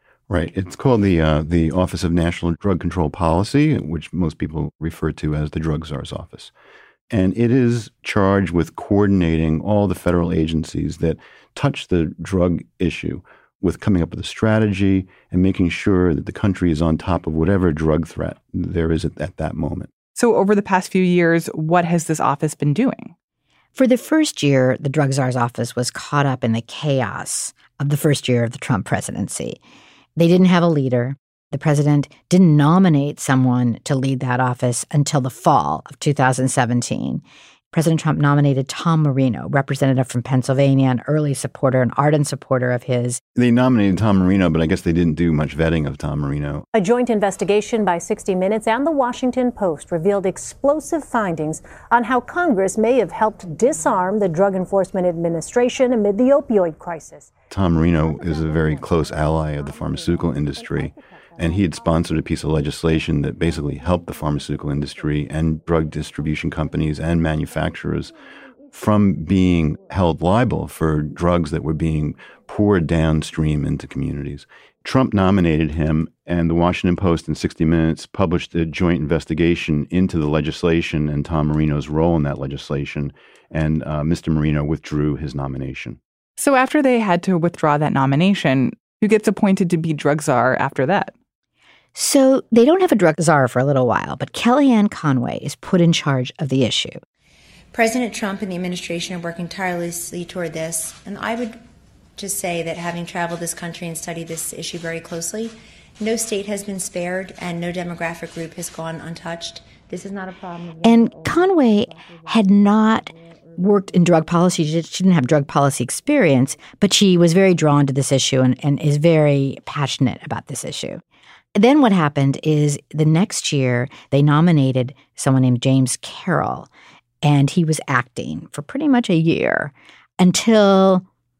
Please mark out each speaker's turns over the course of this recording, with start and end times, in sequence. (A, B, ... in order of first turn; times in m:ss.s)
0:00.3-0:06.5 A
0:07.1-0:19.9 A
0:20.1-0:23.1 B
0:23.8-0:29.6 C
0:30.2-0:43.2 C
0:43.4-0:46.6 A
0:46.7-0:57.3 D
0:57.5-1:08.1 A
1:08.7-1:26.0 A
1:26.4-1:31.1 B
1:31.9-1:37.0 C
1:37.7-1:41.6 E
1:42.2-1:51.3 E
1:50.8-2:01.0 C
2:01.5-2:06.7 C
2:07.2-2:11.0 C